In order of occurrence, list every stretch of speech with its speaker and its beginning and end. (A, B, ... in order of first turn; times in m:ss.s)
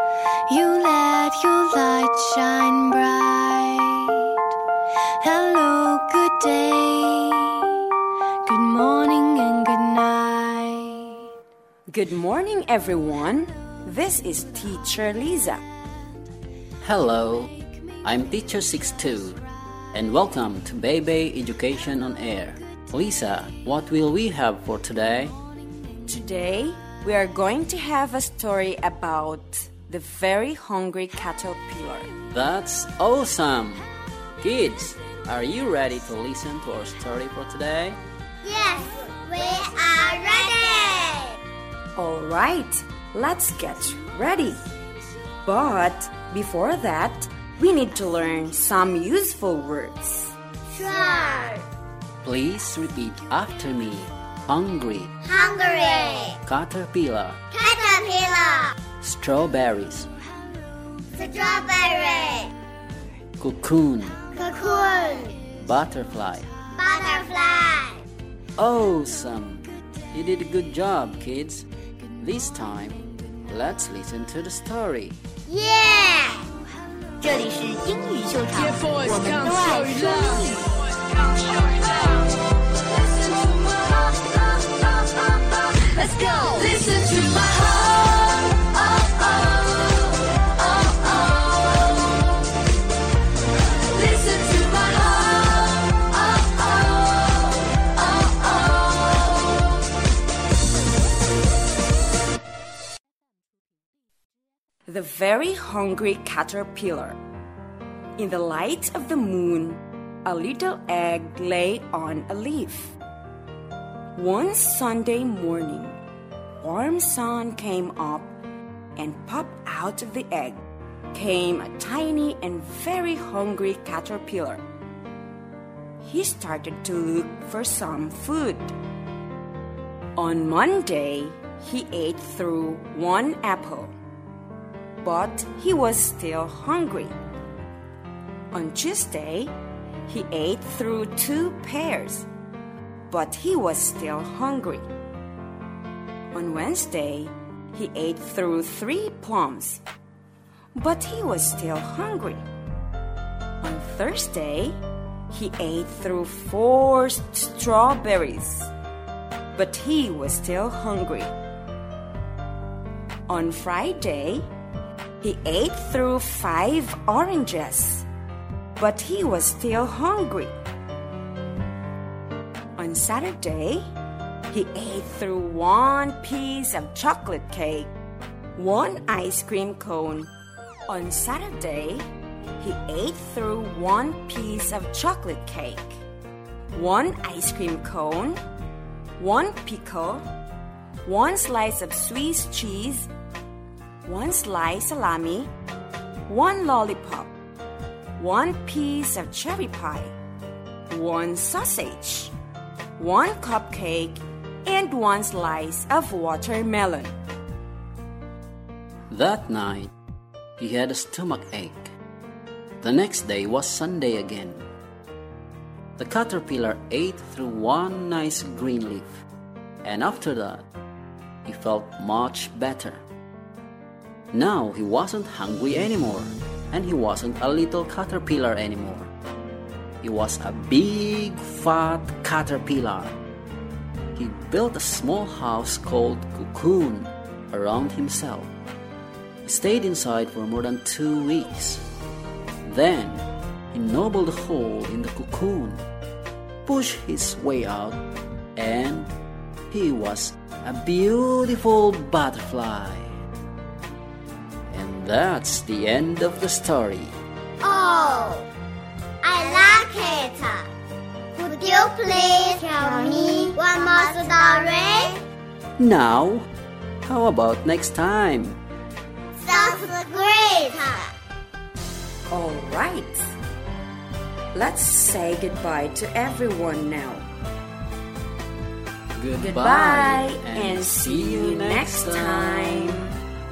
0:00.5-0:04.4 A
0:05.2-0:07.8 A
0:08.4-0:11.2 A
0:11.9-0:15.6 B
0:16.8-0:25.4 C
0:26.0-0:32.1 B
0:32.3-0:33.9 C
0:34.4-0:38.0 C
0:38.4-0:41.4 D
0:42.0-0:44.6 B
0:45.4-0:50.3 B
0:50.7-0:51.6 D
0:52.2-0:55.1 C
0:55.2-0:56.4 D
0:56.4-0:57.4 C
0:57.5-0:58.8 D
0:59.0-1:00.1 C
1:01.2-1:02.5 D
1:03.4-1:04.2 C
1:04.3-1:05.4 D
1:05.5-1:06.5 C
1:06.7-1:08.0 D
1:08.6-1:11.7 C
1:12.2-1:15.2 C
1:15.5-1:16.5 D
1:17.2-1:20.7 E
1:21.6-1:22.1 A
1:25.9-1:26.6 E
1:26.6-1:28.6 A
1:34.6-1:38.5 A
1:44.8-1:47.2 B
1:48.2-1:53.0 B
1:54.1-1:56.0 B
1:56.6-1:58.4 B
1:59.0-2:04.6 B
2:06.0-2:08.7 B
2:10.2-2:13.9 B
2:15.0-2:17.2 B
2:18.5-2:19.5 B
2:20.0-2:22.3 B
2:23.1-2:24.8 B
2:26.3-2:29.8 B
2:30.7-2:32.4 B
2:33.6-2:38.7 B
2:39.5-2:41.3 B
2:43.3-2:44.5 B
2:45.2-2:48.0 B
2:48.8-2:50.5 B
2:52.8-2:53.9 B
2:54.5-2:57.9 B
2:58.6-3:00.3 B
3:00.9-3:02.1 B
3:02.6-3:06.0 B
3:06.7-3:08.4 B
3:09.2-3:10.3 B
3:11.0-3:13.1 B
3:14.0-3:15.5 B
3:16.3-3:17.3 B
3:18.2-3:20.2 B
3:20.9-3:22.3 B
3:23.0-3:27.1 B
3:29.1-3:29.9 C
3:30.6-3:31.9 C
3:32.8-3:34.6 C
3:36.0-3:39.2 C
3:39.8-3:40.6 C
3:41.4-3:43.0 C
3:44.3-3:49.1 C
3:50.0-3:53.2 C
3:54.1-3:58.5 C
3:59.4-4:01.8 C
4:02.6-4:05.8 C
4:06.6-4:08.0 C
4:08.5-4:09.1 C
4:09.7-4:13.2 C
4:14.7-4:17.2 C
4:17.6-4:18.5 D
4:19.2-4:20.7 D
4:21.4-4:25.2 D
4:25.8-4:26.5 C
4:27.0-4:28.6 C
4:29.4-4:31.1 D
4:32.3-4:33.4 B
4:34.5-4:37.3 B
4:39.2-4:43.0 C
4:39.4-4:43.2 B